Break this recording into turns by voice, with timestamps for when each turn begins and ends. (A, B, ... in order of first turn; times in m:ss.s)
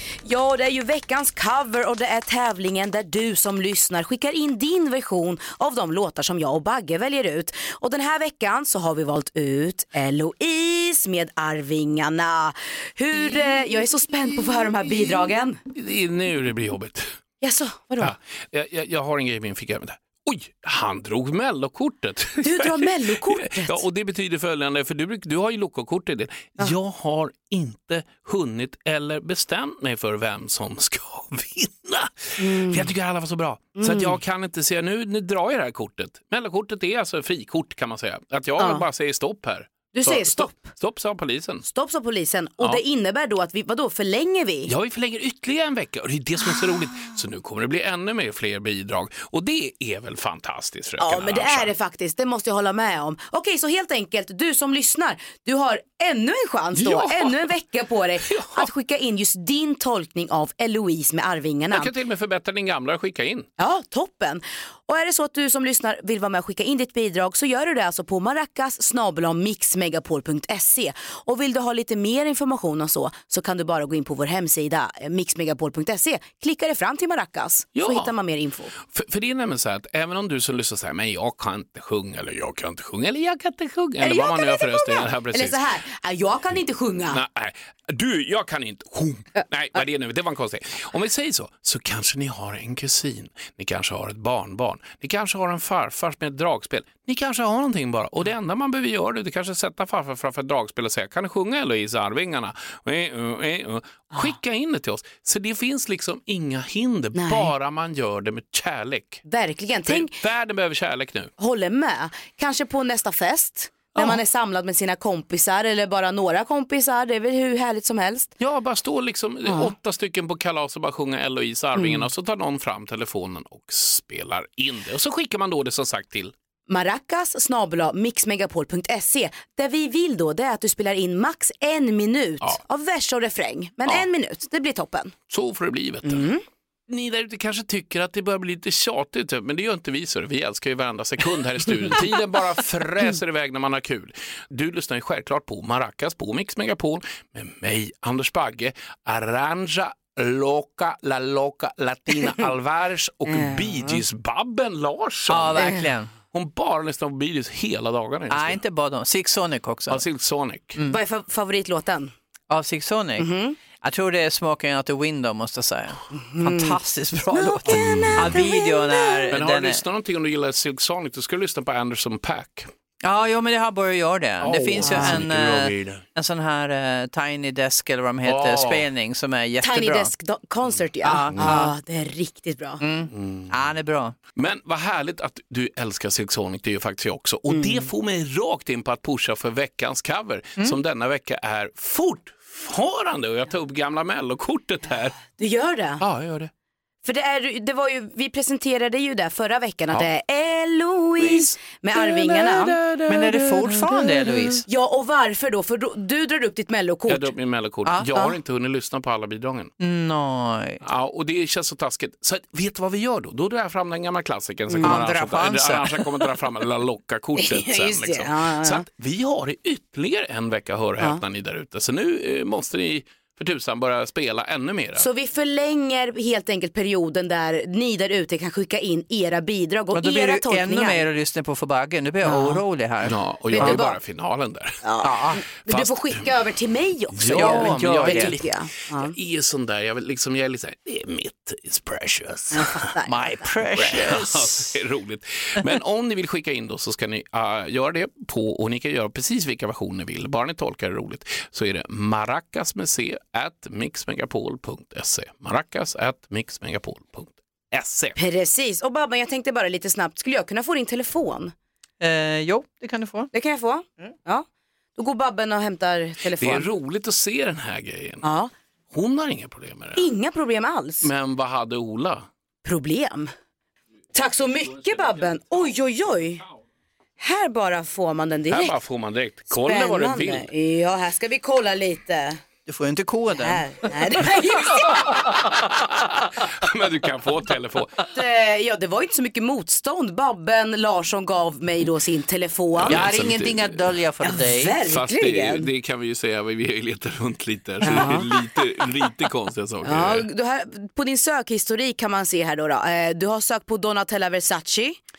0:00.2-0:15.6 A
0:15.7-0:17.1 B
0:17.4-0:18.1 A
0:18.0-0:41.6 B
0:22.4-0:23.8 A
0:32.4-0:32.9 A
0:33.8-0:34.2 A
0:38.6-0:38.9 A
0:39.9-0:40.7 A
0:41.7-0:44.7 A
0:44.7-0:51.7 B
0:51.0-1:01.9 A
0:56.8-0:57.5 B
0:58.3-0:58.7 B
1:01.7-1:03.5 B
1:03.6-1:18.7 A
1:17.8-1:18.1 B
1:18.8-1:25.6 B
1:24.0-1:27.2 A
1:27.1-1:49.2 B
1:47.2-1:47.5 A
1:49.3-1:50.2 A
1:49.9-1:51.3 B
1:51.4-1:58.3 A
1:58.4-2:06.3 B
1:59.5-1:59.7 A
2:01.8-2:02.1 A
2:06.7-2:15.1 A
2:15.3-2:16.3 B
2:16.0-2:16.4 A
2:16.9-2:35.8 B
2:33.3-2:34.0 A
2:35.3-2:36.1 C
2:36.3-2:38.6 B
2:38.3-2:40.0 C
2:39.9-2:40.8 B
2:40.9-2:42.1 A
2:42.5-2:43.3 C
2:43.2-2:43.6 A
2:43.8-2:49.8 C
2:46.2-2:46.8 A
2:47.3-2:49.3 A
2:49.3-2:52.7 B
2:53.0-3:00.1 C
2:54.4-2:56.0 B
2:54.8-2:55.2 A
2:58.2-2:58.8 B
2:59.6-3:02.8 A
3:01.0-3:01.7 C
3:01.3-3:01.6 B
3:02.8-3:04.2 C
3:03.1-3:03.6 B
3:04.4-3:15.2 B
3:07.5-3:07.9 A
3:15.4-3:16.0 A
3:16.0-3:16.5 B
3:17.0-3:22.8 A
3:21.2-3:23.7 B
3:23.1-3:24.6 C
3:24.3-3:27.3 A
3:27.1-3:29.7 B
3:29.8-3:30.8 C
3:30.8-3:45.0 B
3:34.7-3:35.0 A
3:34.8-3:36.0 C
3:37.4-3:38.8 A
3:45.0-3:51.0 A
3:49.9-3:53.8 C
3:52.2-3:52.6 A
3:53.0-3:54.8 B
3:53.5-3:54.0 A
3:54.8-3:59.1 A
3:55.0-3:55.4 C
3:55.7-3:56.2 B
3:57.1-4:02.9 B
3:57.3-3:58.4 C
4:02.5-4:03.2 A
4:03.1-4:04.8 C
4:03.7-4:18.2 B
4:18.2-4:21.5 A
4:22.0-4:23.3 C
4:23.3-4:24.5 A
4:25.0-4:26.7 A
4:26.2-4:28.2 B
4:28.2-4:28.5 A
4:28.9-4:30.1 B
4:30.0-4:31.1 A
4:31.0-4:32.3 B
4:32.6-4:33.3 A
4:34.1-4:36.4 A
4:37.2-4:38.7 A
4:38.5-4:40.5 B
4:39.5-4:42.4 A
4:42.7-4:43.9 C
4:43.3-4:45.3 A
4:45.1-4:48.0 B
4:48.1-4:53.1 A
4:52.8-4:53.8 B
4:52.9-4:54.8 C
4:54.2-4:55.7 A
4:54.8-5:00.3 B
4:57.8-4:58.3 A
4:59.8-5:05.0 A